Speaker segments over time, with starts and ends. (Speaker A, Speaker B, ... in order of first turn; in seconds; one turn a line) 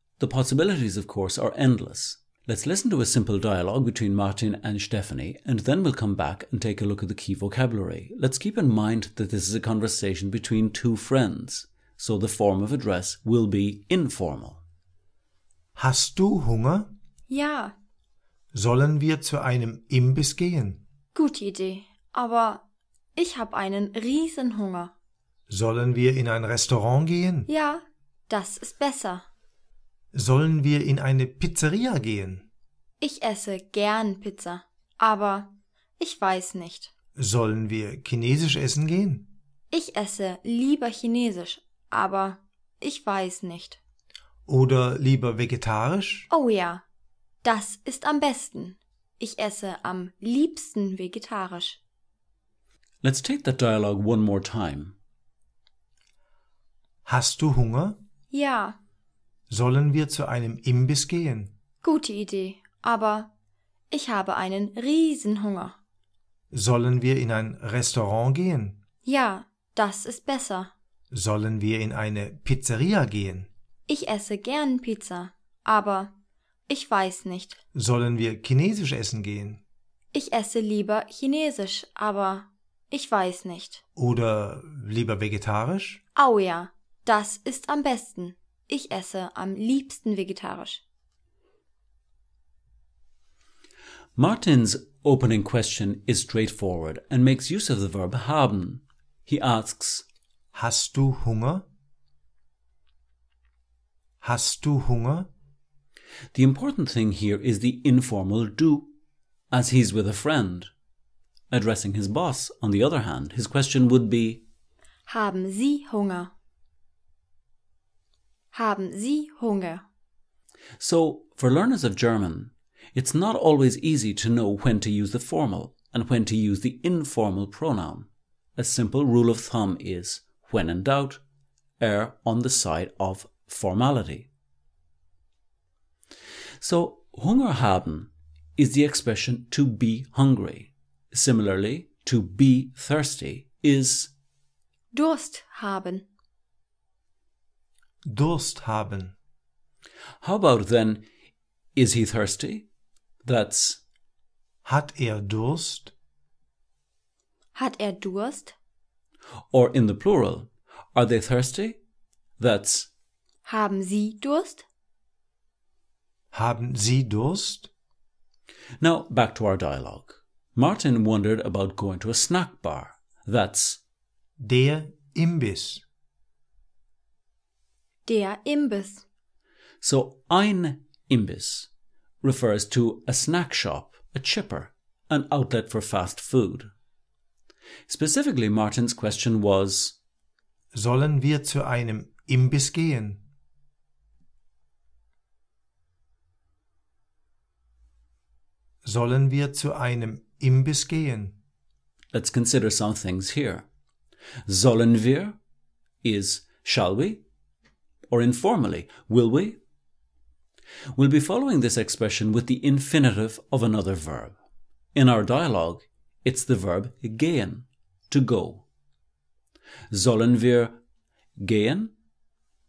Speaker A: 0.2-14.6
Speaker B: 15.8-16.9
Speaker C: 17.3-17.7
Speaker B: 18.5-20.8
Speaker C: 21.1-22.6
Speaker C: 23.1-24.9
Speaker B: 25.5-27.5
Speaker C: 27.5-29.2
Speaker B: 30.1-32.5
Speaker C: 33.0-36.9
Speaker B: 37.1-39.3
Speaker C: 39.7-43.8
Speaker B: 44.5-46.3
Speaker C: 46.3-46.8
Speaker C: 47.4-51.8
Speaker A: 53.0-54.9
Speaker B: 57.0-58.0
Speaker C: 58.3-58.8
Speaker B: 59.5-61.5
Speaker C: 61.8-63.3
Speaker C: 63.9-65.8
Speaker B: 66.5-68.8
Speaker C: 69.0-70.7
Speaker B: 71.1-73.5
Speaker C: 73.9-76.1
Speaker C: 76.7-77.6
Speaker B: 77.7-79.6
Speaker C: 80.1-83.8
Speaker B: 84.0-86.0
Speaker C: 86.2-90.8
Speaker A: 94.2-100.0
Speaker B: 100.5-101.6
Speaker B: 104.2-105.3
Speaker A: 106.3-108.9
Speaker A: 109.5-110.7
Speaker A: 111.5-114.4
Speaker C: 115.1-116.3
Speaker C: 118.5-119.8
Speaker A: 120.8-131.2
Speaker A: 131.8-134.3
Speaker A: 136.6-144.1
Speaker C: 144.9-146.1
Speaker B: 148.1-149.1
Speaker A: 150.2-151.0
Speaker A: 151.8-152.7
Speaker A: 153.2-153.8
Speaker B: 154.6-155.9
Speaker C: 157.5-158.5
Speaker A: 159.5-161.8
Speaker A: 162.4-162.9
Speaker C: 163.4-164.6
Speaker B: 166.3-167.7
Speaker A: 168.8-173.8
Speaker B: 174.4-175.8
Speaker C: 178.1-179.0
Speaker A: 179.8-181.7
Speaker A: 182.2-186.7
Speaker A: 187.9-190.0
Speaker B: 190.7-193.2
Speaker B: 198.8-201.3
Speaker A: 202.1-203.7
Speaker A: 204.5-205.3
Speaker A: 206.0-207.2
Speaker A: 208.1-209.6
Speaker A: 210.9-214.3
Speaker A: 214.9-218.6
Speaker A: 219.9-220.8
Speaker A: 221.4-221.9